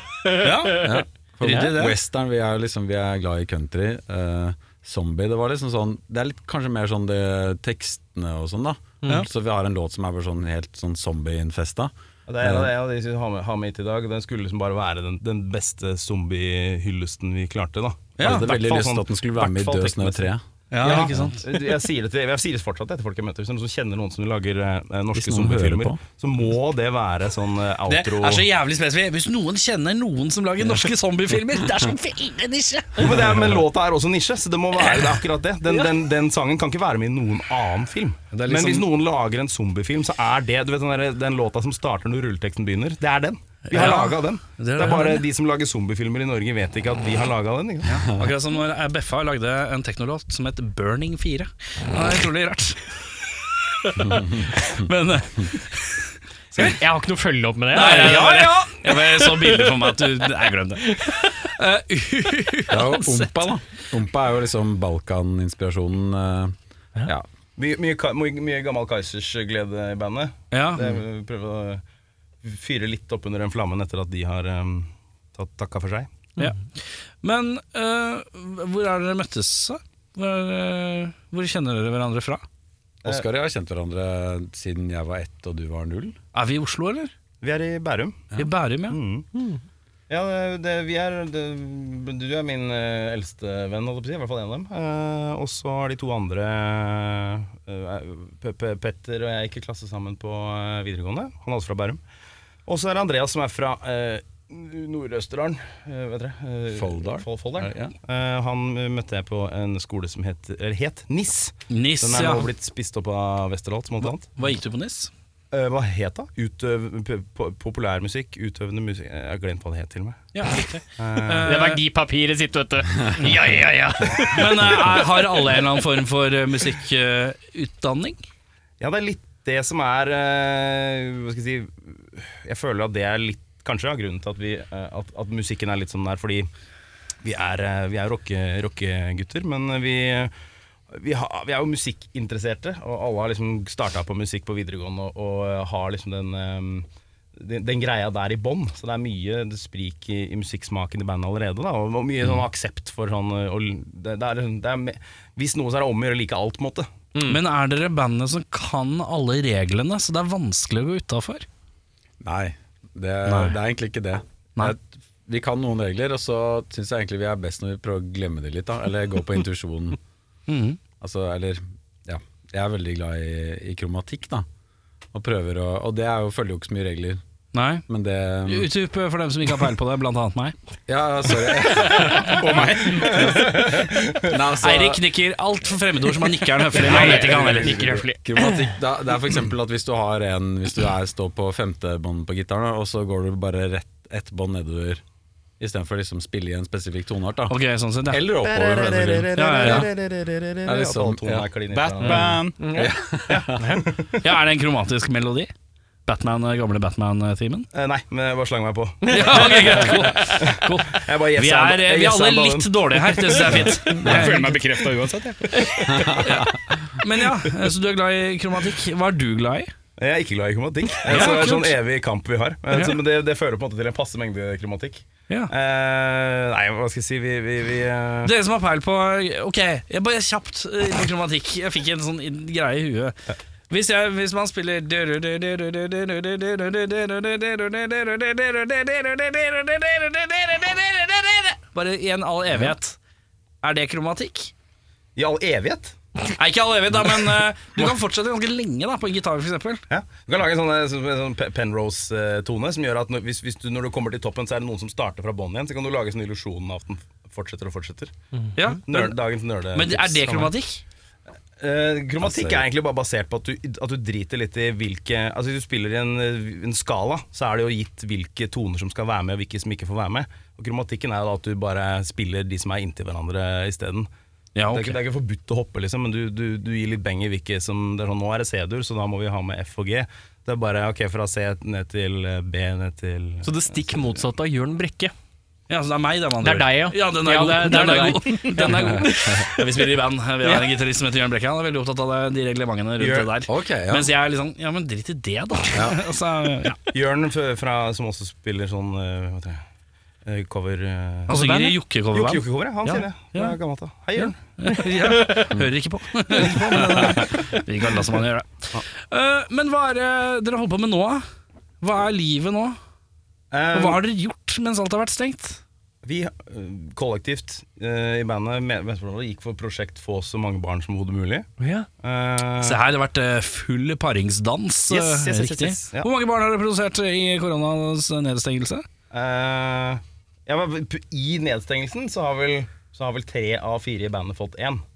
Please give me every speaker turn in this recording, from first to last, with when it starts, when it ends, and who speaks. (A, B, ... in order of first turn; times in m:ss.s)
0:00.4-0:00.8 A
0:00.4-0:02.0 B
0:00.7-0:12.7 C
0:01.4-0:01.7 A
0:12.3-0:28.4 D
0:18.2-0:18.5 B
0:18.2-0:21.4 C
0:20.7-0:21.4 B
0:25.1-0:26.0 C
0:27.9-0:33.4 B
0:33.0-0:48.0 D
0:34.8-0:35.2 B
0:38.3-0:38.8 B
0:43.7-0:45.3 B
0:47.8-0:56.7 B
0:54.0-0:54.7 C
0:56.6-1:00.0 A
0:57.7-1:03.5 B
1:00.8-1:01.3 A
1:02.7-1:06.5 C
1:07.6-1:11.8 D
1:10.5-1:11.0 B
1:12.4-1:16.1 D
1:16.4-1:22.4 B
1:23.0-1:26.2 C
1:26.3-1:27.1 B
1:27.4-1:28.3 D
1:28.3-1:29.0 B
1:28.9-1:29.3 D
1:30.1-1:42.0 D
1:42.7-1:54.3 D
1:46.7-1:47.9 C
1:51.7-1:52.5 B
1:54.0-1:55.1 B
1:55.5-2:00.2 D
2:00.3-2:01.8 B
2:01.0-2:01.5 D
2:01.4-2:05.0 A
2:03.2-2:08.2 B
2:08.8-2:16.5 D
2:17.2-2:20.3 D
2:20.9-2:36.9 D
2:37.2-2:41.5 B
2:42.2-2:50.0 C
2:43.2-2:43.6 B
2:50.5-2:50.8 B
2:51.0-2:54.4 C
2:55.1-2:57.2 C
2:57.5-2:57.8 B
2:57.9-2:58.7 C
2:58.4-3:00.5 B
3:00.9-3:05.0 C
3:02.2-3:03.7 E
3:03.0-3:04.4 D
3:04.6-3:07.9 B
3:06.7-3:08.7 A
3:06.9-3:15.0 C
3:15.6-3:17.5 C
3:17.5-3:18.2 B
3:18.1-3:19.9 C
3:18.4-3:22.4 D
3:19.3-3:19.9 B
3:20.6-3:21.5 C
3:21.7-3:22.6 E
3:22.6-3:22.9 A
3:22.7-3:23.8 C
3:23.3-3:24.3 D
3:23.6-3:23.8 A
3:24.2-3:25.5 B
3:26.0-3:27.7 B
3:27.7-3:34.2 D
3:29.0-3:30.2 A
3:29.1-3:34.6 B
3:34.0-3:36.1 E
3:35.8-3:37.0 C
3:35.9-3:36.2 D
3:36.1-3:39.7 B
3:40.0-3:48.3 D
3:41.0-3:41.8 B
3:48.2-3:53.2 B
3:53.7-4:03.0 B
4:03.6-4:04.5 B
4:05.2-4:05.9 D
4:06.3-4:09.8 B
4:09.9-4:18.1 D
4:18.5-4:19.2 B
4:18.8-4:20.5 D
4:19.7-4:20.8 B
4:21.6-4:34.1 D
4:22.2-4:22.7 C
4:34.5-4:35.0 B
4:34.7-4:44.0 D
4:43.4-4:45.1 A
4:45.7-4:56.8 B
4:46.4-4:49.6 A
4:53.0-4:53.3 D
4:53.4-4:54.1 C
4:55.7-4:56.0 C
4:56.9-4:59.6 D
5:00.2-5:01.4 D
5:01.3-5:01.8 A
5:01.3-5:02.4 B
5:02.1-5:04.4 D
5:03.3-5:03.6 B
5:04.2-5:11.2 B
5:04.7-5:05.4 A
5:06.8-5:07.2 D
5:11.8-5:12.8 B
5:13.5-5:14.0 D
5:13.7-5:15.6 B
5:16.0-5:21.5 D
5:21.6-5:21.9 A
5:22.0-5:22.8 D
5:22.6-5:28.8 B
5:24.9-5:26.1 D
5:29.1-5:34.8 D